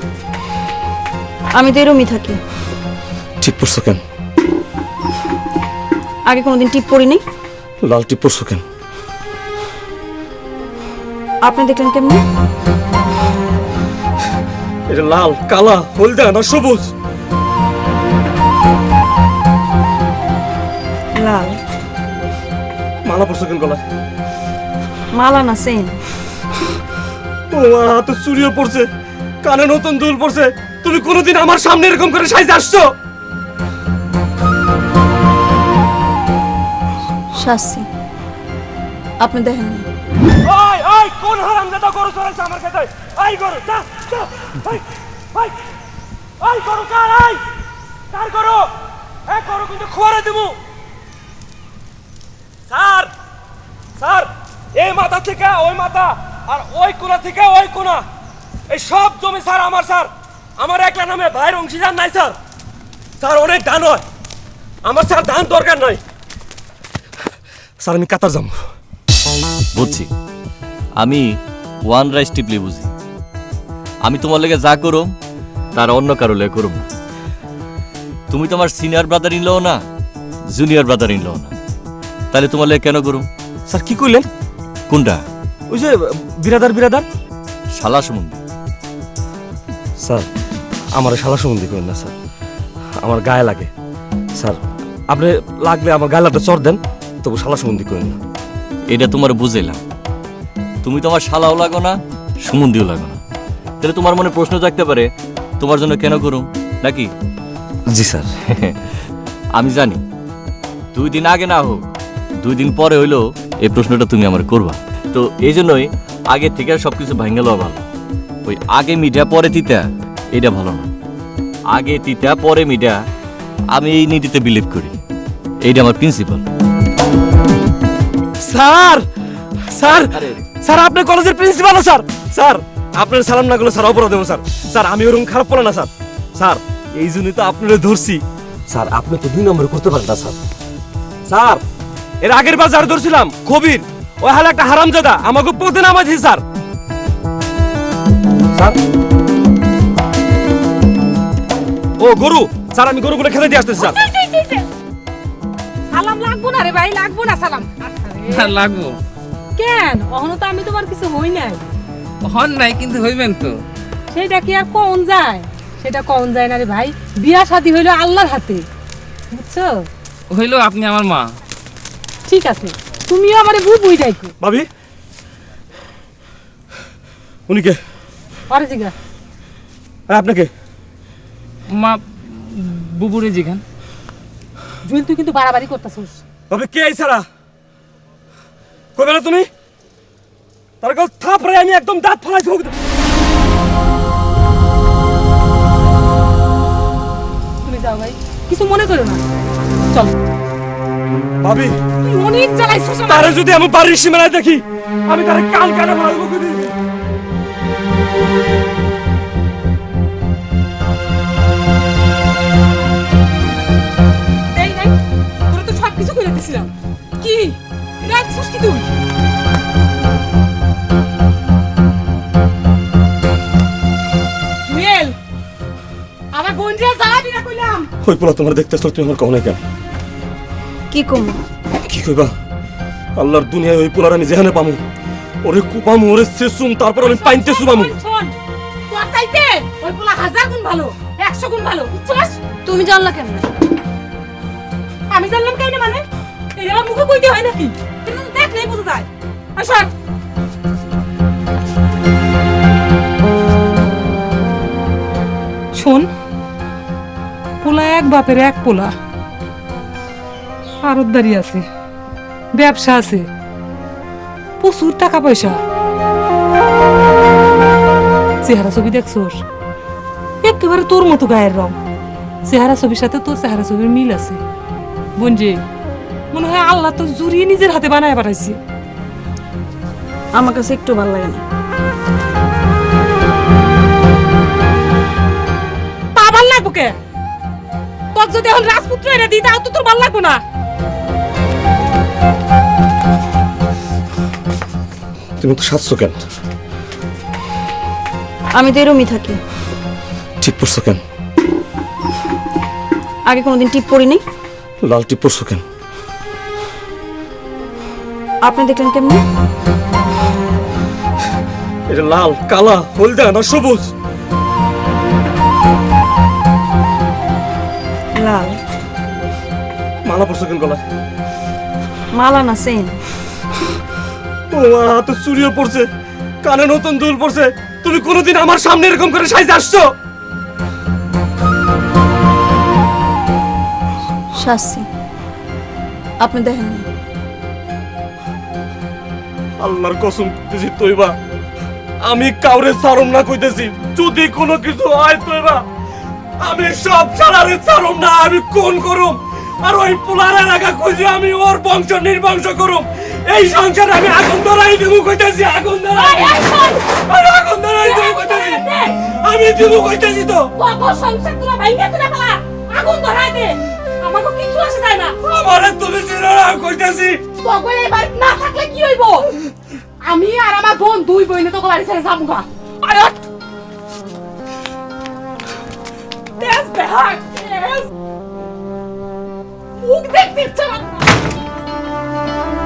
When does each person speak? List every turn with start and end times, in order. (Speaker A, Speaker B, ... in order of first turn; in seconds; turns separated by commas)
Speaker A: 1.5-2.4, Speaker B: 3.4-4.0, Speaker A: 6.3-7.2, Speaker B: 7.8-8.6, Speaker A: 11.4-12.2, Speaker B: 14.9-16.9, Speaker A: 21.2-21.6, Speaker B: 23.1-23.8, Speaker A: 25.1-26.0, Speaker B: 27.5-28.9, Speaker B: 29.4-32.9, Speaker A: 37.4-37.9, Speaker A: 39.2-39.9, Speaker B: 40.4-45.6, Speaker B: 46.4-47.4, Speaker B: 48.1-48.7, Speaker B: 49.3-50.6, Speaker B: 52.7-53.1, Speaker B: 54.0-58.0, Speaker B: 58.7-62.4, Speaker B: 63.2-64.0, Speaker B: 64.8-66.0, Speaker B: 67.8-68.6, Speaker C: 69.7-70.1, Speaker C: 71.0-72.9, Speaker C: 74.0-75.1, Speaker C: 75.7-76.9, Speaker C: 78.3-79.8, Speaker C: 80.5-81.6, Speaker C: 82.3-83.2, Speaker B: 83.7-84.3, Speaker C: 84.9-85.2, Speaker B: 85.7-87.1, Speaker C: 87.8-88.4, Speaker B: 90.0-90.3, Speaker B: 90.9-92.1, Speaker B: 93.0-93.7, Speaker B: 94.4-98.2, Speaker C: 98.9-99.8, Speaker C: 100.8-103.2, Speaker C: 103.8-105.1, Speaker C: 105.6-107.1, Speaker B: 107.9-108.3, Speaker C: 109.6-110.0, Speaker C: 110.9-111.9, Speaker C: 112.4-117.9, Speaker C: 118.5-120.9, Speaker C: 121.7-123.0, Speaker C: 123.7-125.0, Speaker C: 125.6-126.5, Speaker B: 128.4-129.1, Speaker B: 129.7-140.4, Speaker C: 130.1-130.4, Speaker B: 141.3-141.6, Speaker B: 142.2-146.4, Speaker B: 148.5-148.8, Speaker B: 152.0-154.0, Speaker D: 153.8-154.7, Speaker D: 155.9-158.6, Speaker E: 158.4-159.0, Speaker D: 159.6-161.6, Speaker E: 162.2-163.6, Speaker D: 164.1-168.7, Speaker D: 169.3-169.9, Speaker E: 170.3-171.3, Speaker D: 172.3-174.3, Speaker B: 174.4-174.7, Speaker B: 177.5-177.8, Speaker D: 178.5-178.9, Speaker B: 180.1-180.5, Speaker E: 181.7-183.6, Speaker D: 184.8-186.2, Speaker B: 186.5-187.2, Speaker B: 189.0-189.5, Speaker B: 190.8-192.7, Speaker D: 197.6-199.2, Speaker B: 201.4-201.8, Speaker D: 202.0-203.4, Speaker B: 203.1-206.7, Speaker D: 214.5-218.9, Speaker D: 224.7-225.2, Speaker D: 226.3-227.9, Speaker B: 228.0-229.6, Speaker A: 230.9-231.4, Speaker B: 231.8-232.3, Speaker B: 233.2-234.8, Speaker B: 235.4-237.9, Speaker D: 237.0-238.3, Speaker D: 238.9-243.5, Speaker D: 245.1-249.9, Speaker D: 255.7-256.1, Speaker D: 257.6-258.9, Speaker D: 260.8-261.7, Speaker D: 262.5-263.3, Speaker D: 264.6-265.6, Speaker D: 268.4-269.4, Speaker D: 270.4-271.8, Speaker D: 272.4-274.4, Speaker D: 275.2-275.6, Speaker D: 276.3-278.6, Speaker A: 280.3-281.4, Speaker D: 286.1-287.0, Speaker D: 288.1-290.4, Speaker B: 295.4-296.2, Speaker A: 298.5-299.4, Speaker B: 300.4-301.0, Speaker A: 303.3-304.2, Speaker B: 304.8-305.6, Speaker A: 308.4-309.2, Speaker B: 311.9-313.9, Speaker A: 318.2-318.6, Speaker B: 320.1-320.8, Speaker A: 322.1-323.0, Speaker B: 324.5-325.9, Speaker B: 326.4-329.9, Speaker A: 334.4-334.9, Speaker A: 336.2-336.9, Speaker B: 339.6-341.1, Speaker B: 342.0-345.6, Speaker B: 346.4-360.5, Speaker D: 356.0-356.9, Speaker D: 357.8-359.0, Speaker D: 360.6-365.2, Speaker B: 365.2-367.2, Speaker D: 367.4-369.3, Speaker D: 370.0-373.2, Speaker D: 376.4-377.9, Speaker D: 379.8-381.1